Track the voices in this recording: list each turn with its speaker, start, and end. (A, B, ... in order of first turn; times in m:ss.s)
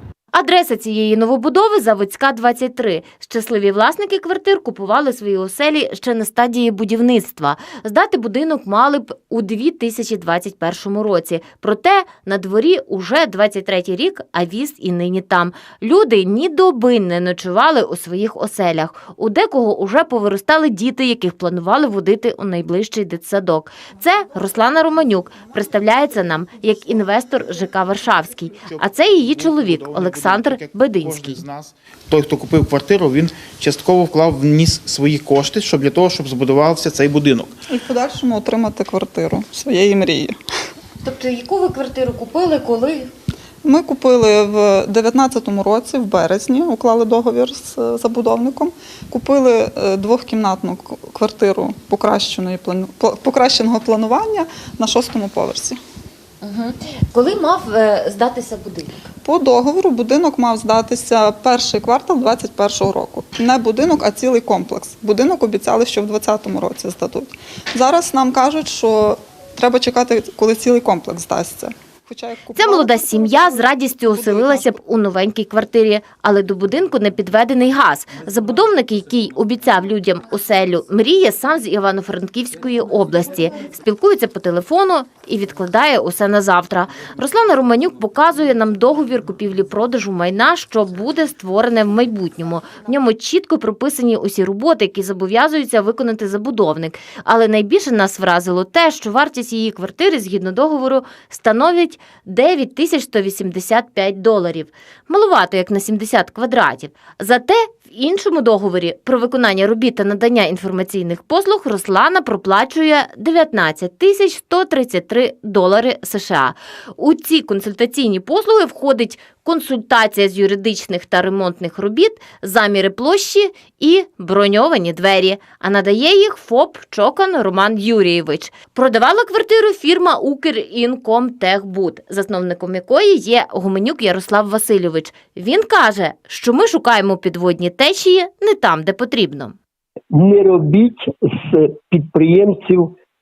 0:00.3-0:31.3 A
0:28.6-0:37.6 B
0:37.7-0:40.4 C
0:41.0-0:43.1 A
0:43.6-0:55.8 C
0:56.4-0:59.0 A
0:59.2-1:14.7 C
1:12.6-2:19.6 A
2:20.1-2:22.9 D